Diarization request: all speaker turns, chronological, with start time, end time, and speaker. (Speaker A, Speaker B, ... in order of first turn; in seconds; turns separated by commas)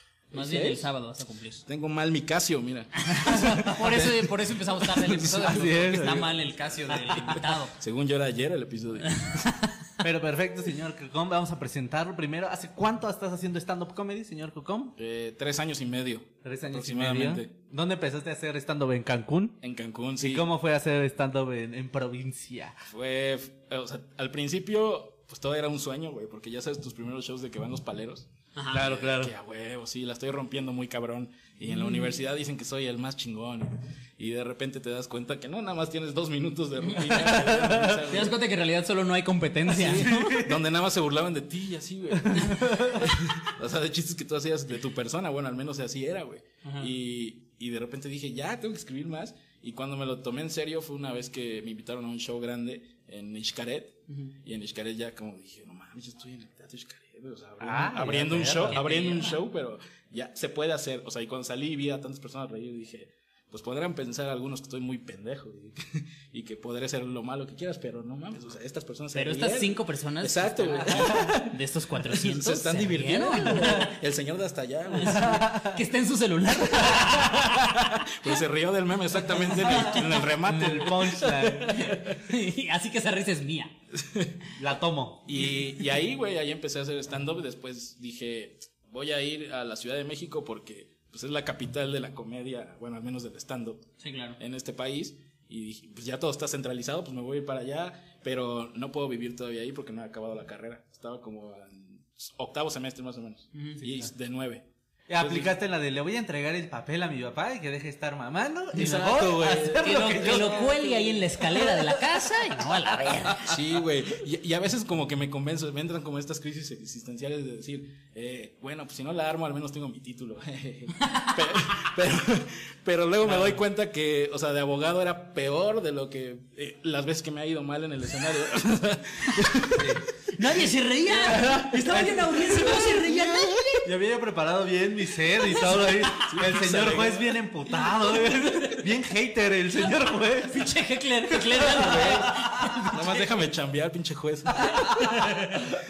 Speaker A: 0.3-0.9, Speaker B: 0.3-1.6, Speaker A: 1.6-4.3, Speaker B: 3.1-7.7, Speaker C: 5.0-6.3, Speaker A: 6.9-9.5, Speaker B: 9.1-9.8, Speaker C: 10.0-14.9, Speaker A: 14.9-17.5, Speaker C: 16.4-19.6, Speaker A: 19.6-20.5, Speaker C: 20.2-22.8, Speaker A: 22.9-38.4, Speaker B: 28.5-28.8, Speaker C: 28.7-29.3, Speaker B: 36.8-37.3, Speaker C: 37.1-38.0, Speaker B: 38.0-40.1, Speaker A: 39.7-71.5, Speaker C: 39.8-40.6, Speaker C: 42.2-43.0, Speaker B: 46.6-46.9, Speaker C: 57.6-58.8, Speaker B: 58.6-59.4, Speaker B: 69.1-73.9, Speaker A: 72.1-75.5, Speaker C: 73.6-73.8, Speaker B: 74.9-78.0, Speaker C: 75.3-75.6, Speaker A: 76.9-82.0, Speaker B: 79.3-83.8, Speaker C: 79.9-82.0, Speaker A: 83.9-84.3, Speaker C: 84.6-85.3, Speaker A: 85.2-93.9, Speaker B: 94.0-94.4, Speaker A: 94.4-104.7, Speaker B: 103.5-103.8, Speaker C: 103.8-104.1, Speaker C: 105.1-112.0, Speaker A: 105.2-105.5, Speaker A: 108.8-110.7, Speaker B: 108.8-113.6, Speaker A: 113.4-130.0, Speaker B: 121.1-121.3, Speaker C: 123.2-123.6, Speaker C: 129.7-130.1, Speaker B: 130.3-133.9, Speaker C: 131.1-140.6, Speaker B: 135.5-136.3, Speaker A: 136.2-137.3, Speaker B: 140.4-143.3, Speaker C: 141.5-142.7, Speaker A: 141.7-145.7, Speaker C: 144.6-145.7